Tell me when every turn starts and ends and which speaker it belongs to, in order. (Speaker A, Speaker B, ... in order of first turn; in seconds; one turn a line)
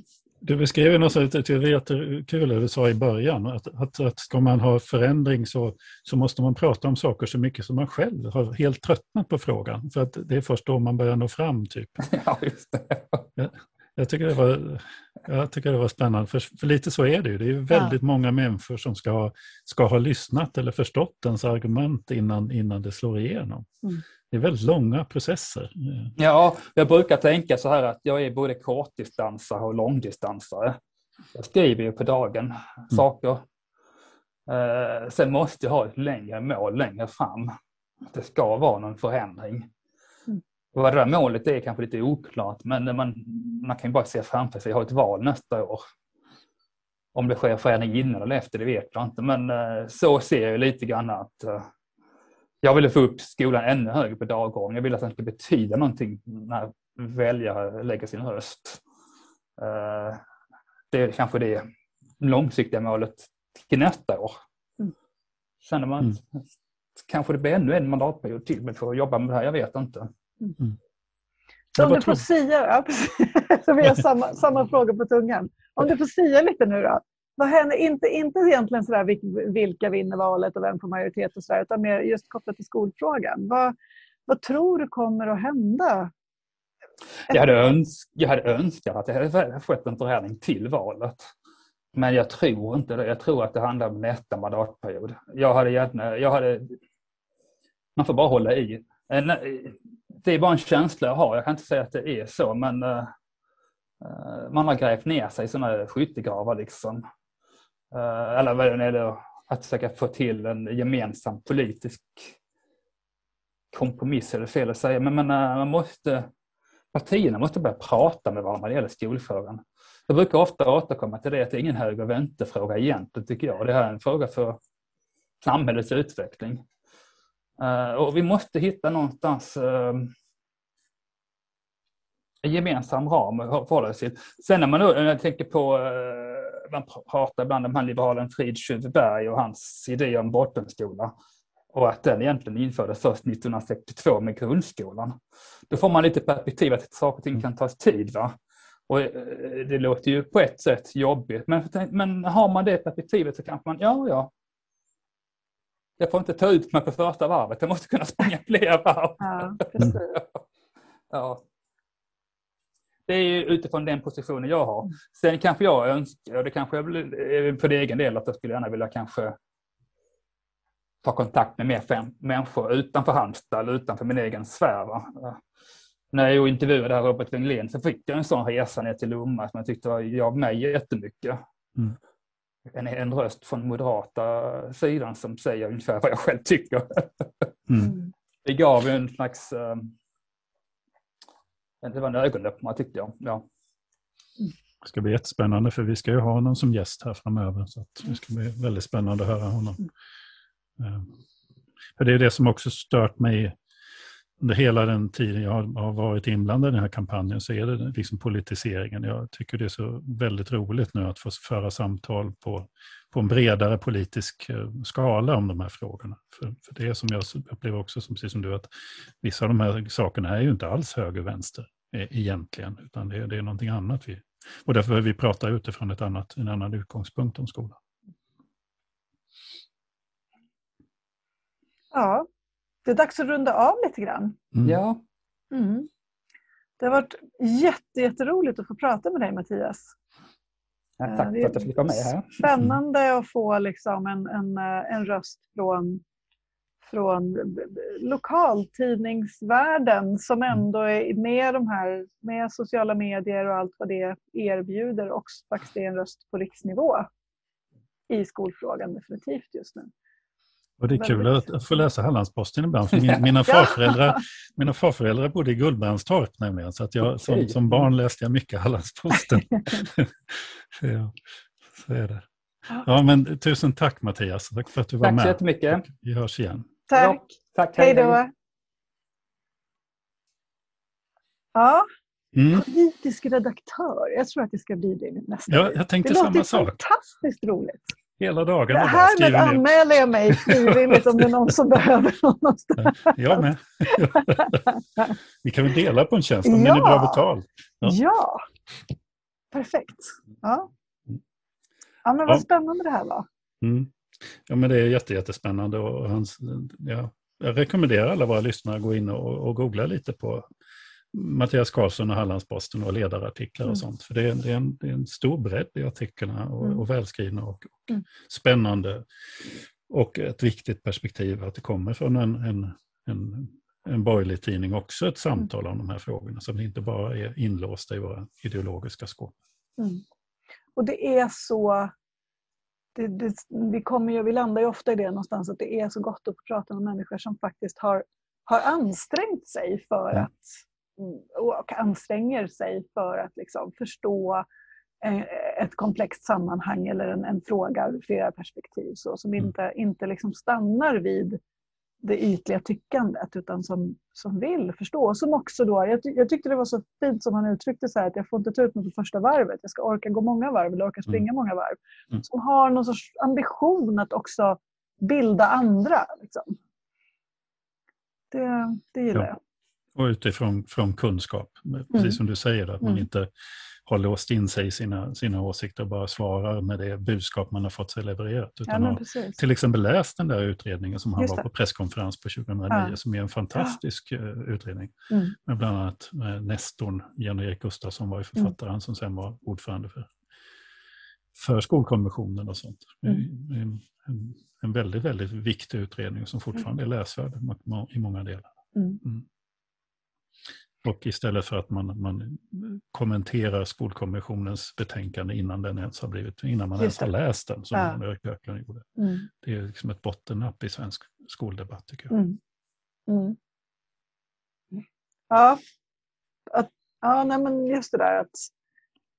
Speaker A: 0.4-12.0
Speaker B: 12.0-13.3
Speaker A: 13.4-23.7
Speaker A: 24.3-26.1
Speaker B: 26.2-30.8
Speaker B: 31.3-33.4
Speaker B: 34.5-37.5
Speaker B: 38.0-39.7
Speaker B: 40.7-45.8
Speaker B: 47.1-51.7
Speaker B: 52.6-58.8
Speaker B: 59.6-60.2
Speaker B: 60.9-61.6
Speaker B: 62.2-64.4
Speaker B: 65.6-66.4
Speaker B: 67.0-70.1
Speaker C: 71.7-83.7
Speaker A: 71.8-72.2
Speaker C: 84.3-86.1
Speaker B: 87.3-91.3
Speaker B: 91.9-96.8
Speaker B: 98.0-103.1
Speaker B: 104.0-107.0
Speaker B: 107.9-112.3
Speaker B: 113.7-116.3
Speaker B: 116.9-124.6
Speaker B: 125.4-126.6
Speaker B: 127.6-130.1
Speaker B: 132.4-141.1
Speaker B: 141.7-145.2
Speaker B: 145.7-148.3
Speaker B: 148.9-154.3
Speaker B: 156.0-160.4
Speaker C: 159.2-160.2
Speaker B: 161.1-161.4
Speaker B: 163.1-169.3
Speaker B: 171.0-175.4
Speaker B: 176.1-181.4
Speaker B: 182.7-187.5
Speaker A: 187.7-188.0
Speaker C: 187.8-188.1
Speaker B: 188.4-189.9
Speaker B: 191.8-193.4
Speaker A: 194.8-199.9
Speaker A: 200.8-201.1
Speaker A: 202.0-203.6
Speaker A: 204.4-218.7
Speaker A: 219.2-227.8
Speaker C: 231.9-232.3
Speaker C: 232.8-234.4
Speaker B: 234.6-235.0
Speaker C: 235.5-235.9
Speaker C: 236.8-239.9
Speaker B: 241.0-242.4
Speaker C: 241.1-246.0
Speaker C: 246.8-257.1
Speaker C: 258.1-259.9
Speaker A: 260.8-272.2
Speaker C: 260.9-261.4
Speaker B: 263.0-263.3
Speaker C: 263.5-264.2
Speaker B: 267.1-267.8
Speaker A: 272.8-276.7
Speaker B: 275.0-275.8
Speaker C: 276.9-278.3
Speaker B: 276.9-278.2
Speaker C: 281.5-281.9
Speaker A: 282.3-282.6
Speaker C: 282.5-287.9
Speaker A: 285.5-286.8
Speaker A: 288.2-289.7
Speaker C: 288.7-295.1
Speaker A: 290.3-291.2
Speaker A: 292.8-294.7
Speaker A: 295.4-298.0
Speaker C: 296.4-297.2
Speaker C: 297.8-298.4
Speaker C: 299.5-300.7
Speaker C: 302.0-303.2
Speaker A: 303.6-310.4
Speaker A: 311.1-329.3
Speaker C: 329.8-330.0
Speaker C: 330.8-331.9
Speaker C: 332.9-344.4
Speaker C: 345.0-351.4
Speaker C: 352.0-366.6
Speaker C: 368.3-369.4
Speaker A: 369.9-373.3
Speaker C: 371.9-372.2
Speaker A: 373.8-390.1
Speaker C: 378.7-379.4
Speaker C: 381.2-381.4
Speaker C: 382.7-382.9
Speaker C: 385.1-385.3
Speaker A: 391.3-399.2
Speaker C: 398.7-399.0
Speaker A: 400.8-412.1
Speaker C: 406.8-407.1
Speaker C: 409.0-409.3
Speaker C: 412.1-412.4
Speaker C: 413.1-413.4
Speaker C: 415.3-415.6
Speaker C: 416.5-418.5